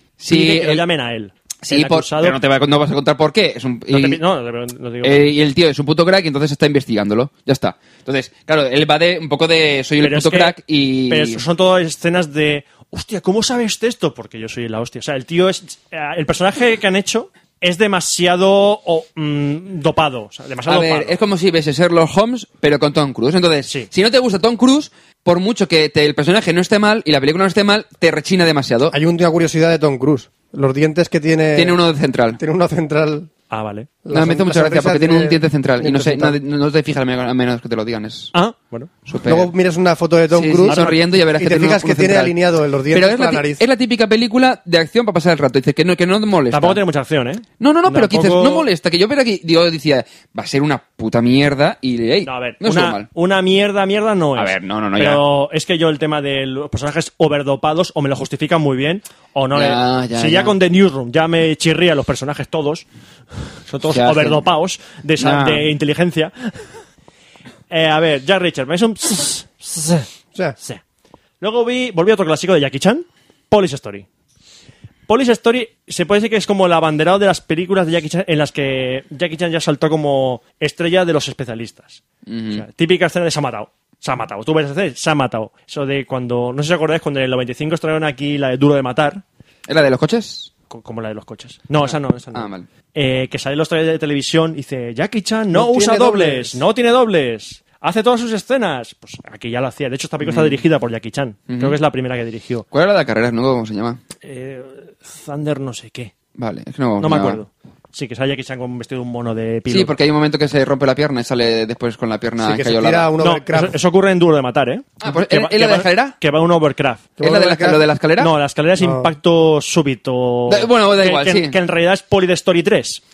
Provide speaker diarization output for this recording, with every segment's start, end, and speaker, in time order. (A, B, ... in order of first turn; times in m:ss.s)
0:00.2-0:00.8 A
0:00.3-0:02.4 B
0:01.6-0:04.2 A
0:03.9-0:05.4 B
0:05.0-0:11.4 A
0:10.0-0:10.6 B
0:11.1-0:21.2 B
0:20.7-0:29.0 A
0:28.9-0:31.8 C
0:31.6-0:32.4 A
0:32.4-0:33.3 C
0:33.5-0:33.9 B
0:34.0-0:36.4 C
0:34.1-0:38.3 A
0:38.3-0:38.9 B
0:39.1-0:39.5 A
0:39.2-0:43.6 C
0:40.3-0:42.4 A
0:40.7-0:41.0 B
0:42.9-0:46.8 A
0:46.5-0:48.6 B
0:47.6-0:53.1 A
0:52.2-1:02.9 B
0:54.4-0:55.2 A
0:59.5-1:00.5 A
1:03.7-1:06.7 B
1:03.9-1:04.4 A
1:05.2-1:05.7 A
1:07.7-1:10.1 B
1:11.4-1:14.1 B
1:15.1-1:29.2 B
1:22.3-1:22.6 A
1:29.7-1:30.5 A
1:30.7-1:42.6 B
1:32.3-1:32.7 A
1:35.5-1:36.6 C
1:40.2-1:40.6 A
1:41.5-1:41.8 A
1:42.7-1:44.0 A
1:44.2-1:46.1 B
1:46.4-1:47.4 A
1:47.0-1:50.0 B
1:49.7-1:53.1 A
1:52.4-1:53.8 C
1:53.2-1:57.1 B
1:55.0-1:56.1 A
1:57.2-1:57.8 C
1:57.2-1:58.3 A
1:58.2-2:03.0 B
1:58.8-1:59.1 C
2:00.5-2:01.6 A